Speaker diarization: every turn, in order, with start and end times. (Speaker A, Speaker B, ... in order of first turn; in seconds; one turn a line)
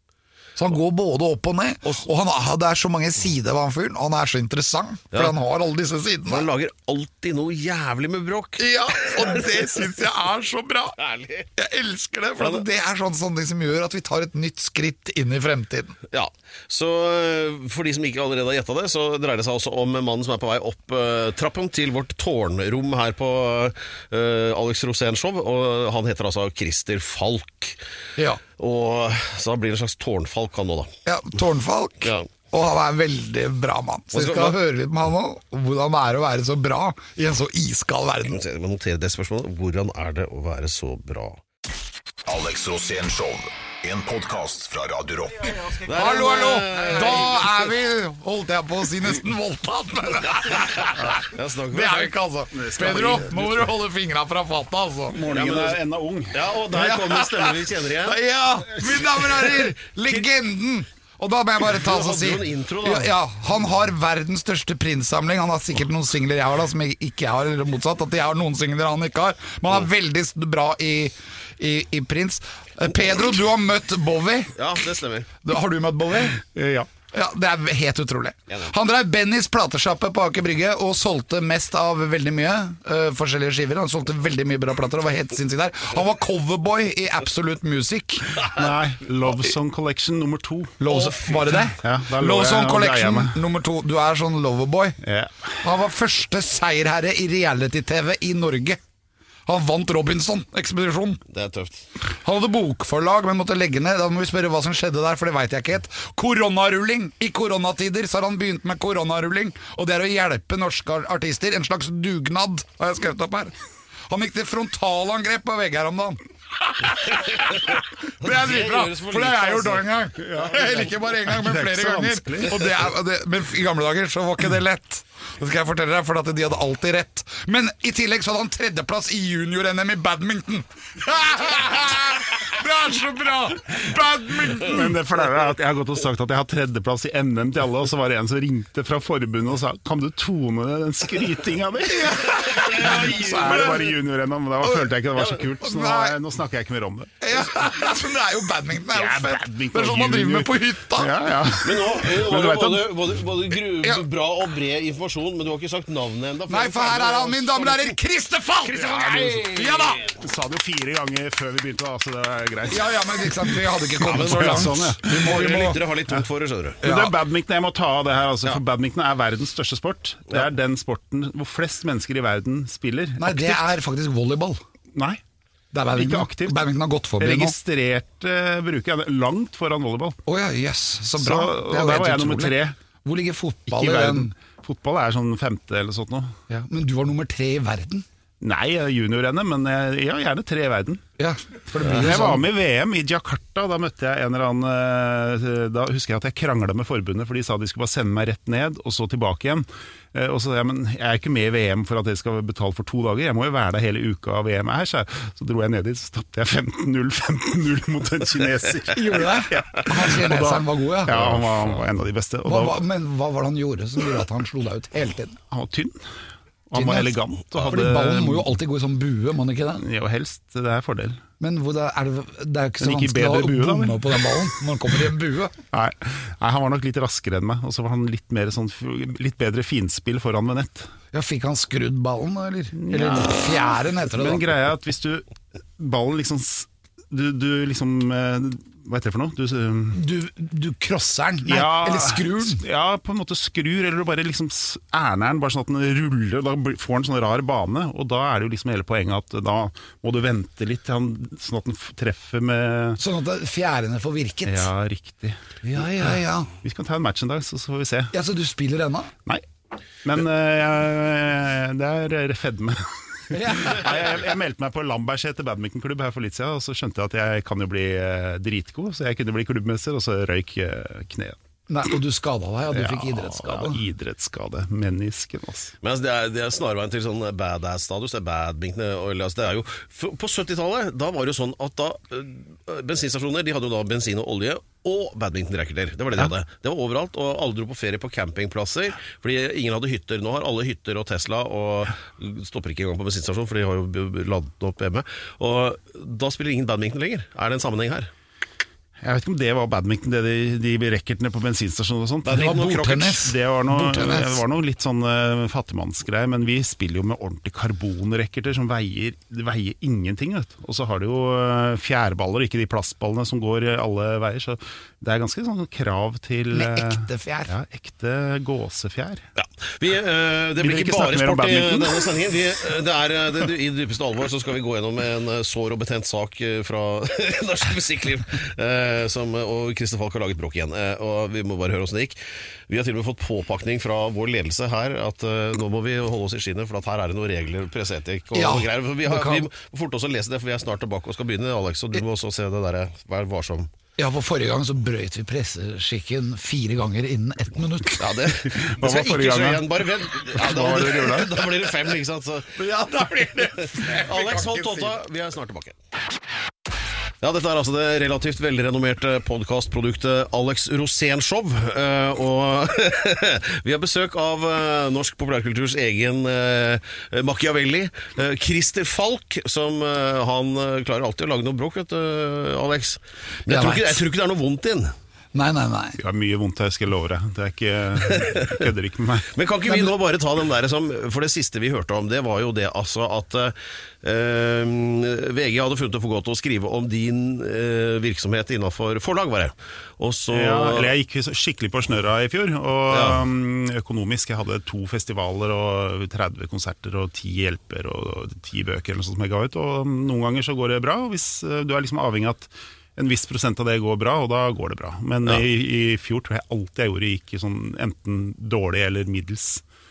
Speaker A: 0.6-6.4
Speaker B: 6.3-9.8
Speaker A: 8.6-11.0
Speaker B: 11.0-11.5
Speaker A: 11.6-16.0
Speaker B: 16.1-27.8
Speaker B: 28.6-30.9
Speaker A: 31.1-38.4
Speaker B: 32.0-32.3
Speaker B: 34.1-34.5
Speaker B: 38.3-41.4
Speaker C: 42.2-45.5
Speaker A: 45.6-51.0
Speaker B: 45.8-47.6
Speaker D: 46.7-47.4
Speaker D: 51.0-51.2
Speaker B: 51.2-52.1
Speaker A: 51.7-55.2
Speaker D: 52.5-53.7
Speaker D: 55.1-56.5
Speaker B: 55.3-55.8
Speaker B: 56.3-58.1
Speaker A: 56.7-74.5
Speaker B: 61.7-63.1
Speaker B: 74.5-75.3
Speaker A: 75.4-76.4
Speaker D: 76.4-76.9
Speaker A: 77.1-88.4
Speaker D: 88.5-90.8
Speaker A: 90.8-95.0
Speaker B: 90.9-91.3
Speaker D: 91.8-93.4
Speaker D: 95.0-95.6
Speaker A: 95.6-98.8
Speaker A: 99.5-101.2
Speaker B: 101.3-101.9
Speaker A: 102.0-113.5
Speaker A: 114.1-134.9
Speaker B: 117.6-119.8
Speaker D: 120.2-122.7
Speaker D: 134.6-147.7
Speaker A: 141.9-143.9
Speaker B: 142.5-143.7
Speaker A: 145.6-146.2
Speaker A: 147.2-151.2
Speaker D: 148.9-152.9
Speaker B: 151.6-157.9
Speaker A: 156.5-160.0
Speaker D: 158.7-165.6
Speaker A: 162.7-165.8
Speaker B: 164.0-166.8
Speaker D: 166.8-173.7
Speaker A: 166.8-167.1
Speaker A: 173.2-174.6
Speaker D: 174.9-175.2
Speaker A: 175.7-177.5
Speaker D: 175.9-176.6
Speaker D: 177.2-180.2
Speaker A: 180.2-184.3
Speaker D: 181.2-182.8
Speaker D: 183.7-186.3
Speaker A: 186.5-188.0
Speaker D: 188.4-191.0
Speaker A: 191.2-192.5
Speaker D: 191.8-212.8
Speaker A: 208.9-211.8
Speaker A: 212.4-215.4
Speaker D: 215.5-216.0
Speaker D: 216.7-218.5
Speaker A: 216.7-219.8
Speaker D: 219.8-221.2
Speaker A: 221.4-225.5
Speaker D: 222.8-224.5
Speaker D: 225.7-230.9
Speaker A: 231.1-234.4
Speaker D: 232.7-235.2
Speaker D: 235.8-240.0
Speaker A: 239.9-242.6
Speaker D: 241.4-253.0
Speaker A: 253.0-254.7
Speaker D: 254.4-258.1
Speaker A: 255.6-256.5
Speaker A: 258.1-259.1
Speaker D: 260.0-271.4
Speaker A: 263.3-264.0
Speaker A: 271.7-273.8
Speaker D: 272.7-275.7
Speaker B: 275.8-298.1
Speaker D: 299.0-319.2
Speaker B: 302.2-303.1
Speaker A: 302.3-304.4
Speaker A: 316.5-317.5
Speaker B: 319.4-343.7
Speaker D: 320.6-322.3
Speaker A: 338.3-339.5
Speaker A: 344.0-348.2
Speaker B: 348.0-352.6
Speaker D: 348.4-349.6
Speaker D: 350.3-351.4
Speaker A: 352.6-354.9
Speaker B: 353.9-355.8
Speaker D: 354.0-354.4
Speaker B: 357.2-374.9
Speaker A: 373.5-374.0
Speaker A: 375.3-376.0
Speaker D: 376.0-379.3
Speaker B: 378.1-378.6
Speaker B: 379.3-390.9
Speaker D: 390.3-409.6
Speaker B: 392.9-393.2